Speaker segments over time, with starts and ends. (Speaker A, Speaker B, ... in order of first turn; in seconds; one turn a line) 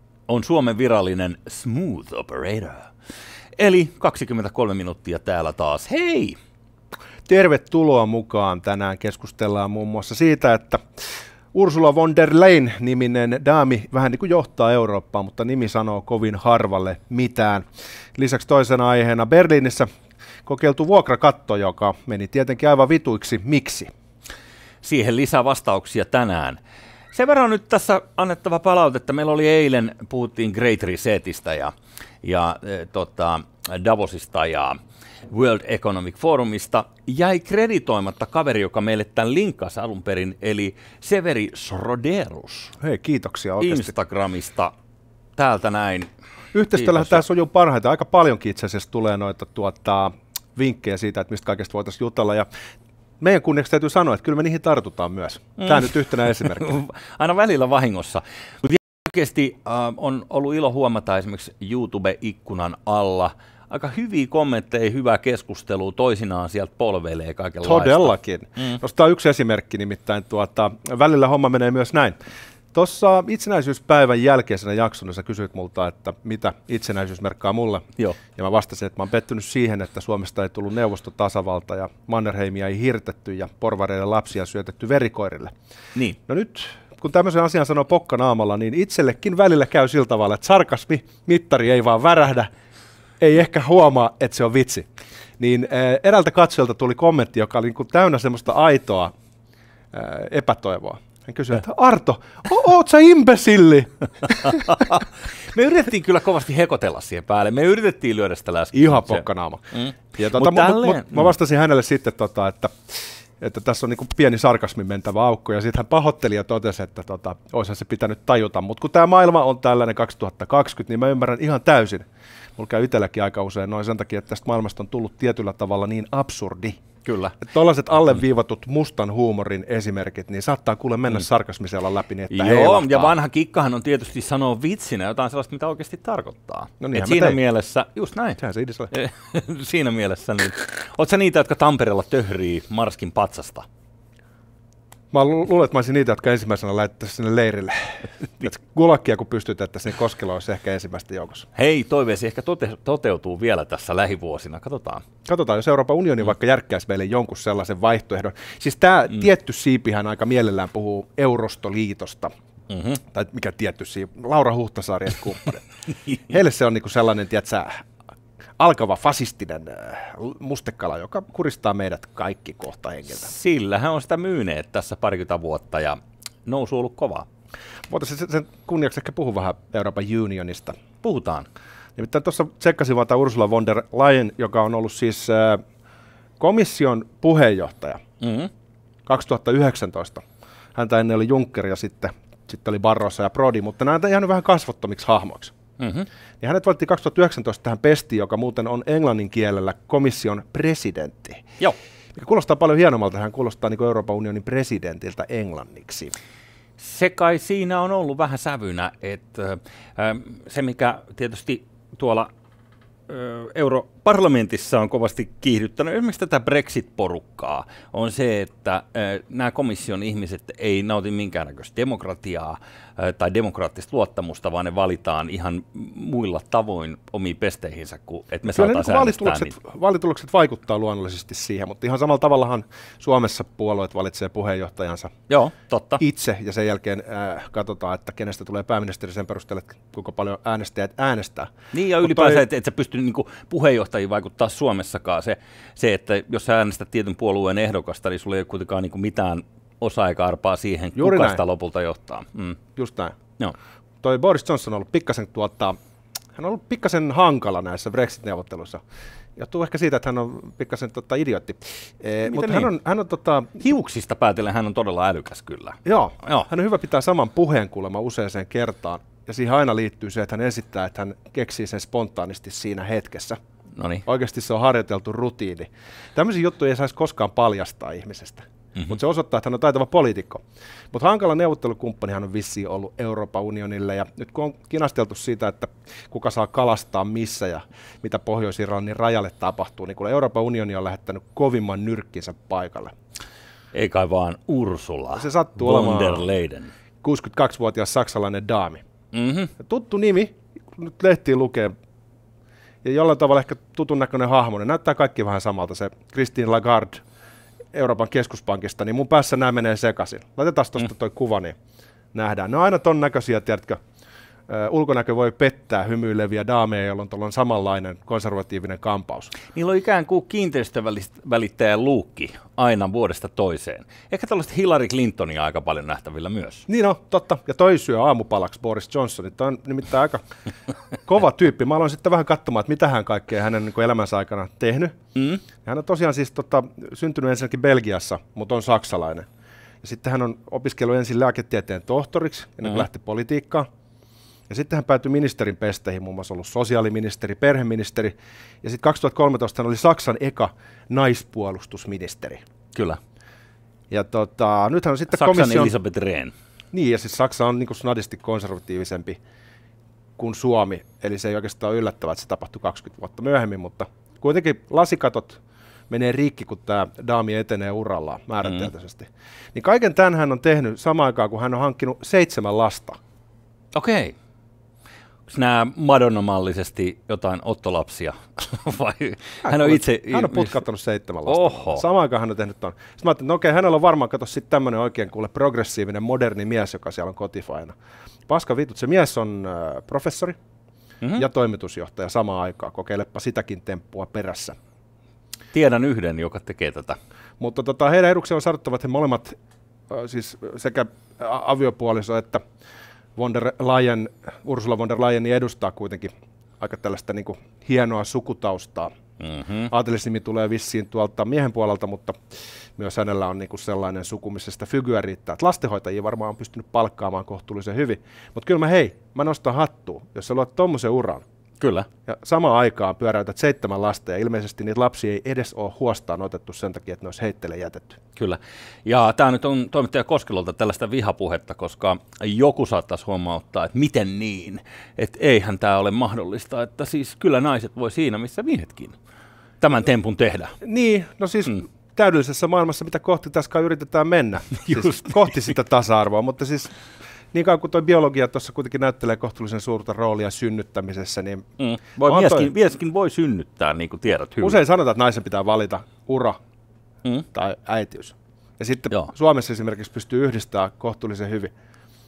Speaker A: 0.3-2.9
Speaker A: 3.6-6.4
Speaker B: 7.3-19.9
Speaker B: 20.4-23.9
Speaker A: 24.8-26.6
Speaker A: 27.1-34.8
Speaker A: 35.3-42.8
Speaker B: 42.8-43.9
Speaker A: 43.6-44.7
Speaker A: 45.4-46.1
Speaker B: 46.5-52.5
Speaker A: 46.8-47.2
Speaker B: 53.2-56.8
Speaker A: 55.6-68.8
Speaker B: 67.6-72.2
Speaker B: 72.7-85.5
Speaker B: 86.3-92.5
Speaker B: 93.2-94.9
Speaker B: 95.4-99.1
Speaker B: 99.9-104.9
Speaker A: 104.3-111.3
Speaker B: 108.7-126.8
Speaker A: 127.0-127.4
Speaker B: 127.4-133.1
Speaker A: 132.3-138.4
Speaker B: 136.8-137.4
Speaker B: 138.4-138.9
Speaker A: 138.9-143.7
Speaker B: 145.1-151.5
Speaker A: 151.6-155.0
Speaker B: 155.2-162.3
Speaker A: 162.7-163.0
Speaker B: 163.0-165.6
Speaker B: 166.3-167.9
Speaker B: 168.6-173.3
Speaker A: 173.1-177.3
Speaker B: 177.9-180.8
Speaker A: 181.0-181.5
Speaker B: 182.0-185.6
Speaker B: 186.4-188.0
Speaker A: 188.2-188.5
Speaker B: 189.1-190.2
Speaker B: 190.8-195.5
Speaker A: 195.8-196.1
Speaker B: 196.4-201.5
Speaker B: 202.2-206.1
Speaker A: 206.8-212.3
Speaker A: 213.1-229.6
Speaker B: 228.5-235.2
Speaker A: 235.3-236.0
Speaker B: 236.0-242.4
Speaker A: 241.7-252.6
Speaker B: 251.0-251.4
Speaker B: 252.8-253.2
Speaker B: 254.0-255.8
Speaker B: 256.4-258.8
Speaker B: 259.4-263.6
Speaker A: 262.3-262.7
Speaker A: 263.6-266.5
Speaker B: 265.9-273.4
Speaker A: 273.8-274.0
Speaker B: 274.1-292.9
Speaker A: 293.7-296.7
Speaker B: 295.1-296.3
Speaker B: 297.0-298.8
Speaker A: 299.1-299.5
Speaker B: 299.6-301.7
Speaker B: 302.8-307.0
Speaker B: 307.7-311.6
Speaker B: 312.1-313.8
Speaker B: 314.5-319.4
Speaker A: 319.5-326.7
Speaker B: 326.7-330.2
Speaker B: 331.1-335.0
Speaker A: 335.1-335.4
Speaker B: 335.6-339.3
Speaker B: 339.8-343.7
Speaker B: 344.5-352.4
Speaker A: 352.7-353.0
Speaker B: 353.9-355.7
Speaker A: 355.1-356.3
Speaker B: 356.7-359.2
Speaker B: 360.2-373.0
Speaker A: 373.8-374.1
Speaker A: 375.3-380.6
Speaker B: 379.4-387.7
Speaker A: 381.3-381.8
Speaker B: 388.3-390.4
Speaker B: 391.1-394.6
Speaker A: 395.5-397.0
Speaker B: 397.4-399.4
Speaker B: 399.9-402.4
Speaker B: 403.2-408.9
Speaker A: 409.2-409.7
Speaker B: 409.7-412.2
Speaker B: 412.8-421.2
Speaker A: 421.6-421.9
Speaker B: 422.1-428.0
Speaker A: 428.2-439.0
Speaker A: 439.6-440.6
Speaker B: 440.6-446.7
Speaker A: 444.6-445.3
Speaker B: 447.3-452.5
Speaker A: 451.6-454.6
Speaker B: 454.4-456.4
Speaker B: 457.3-461.5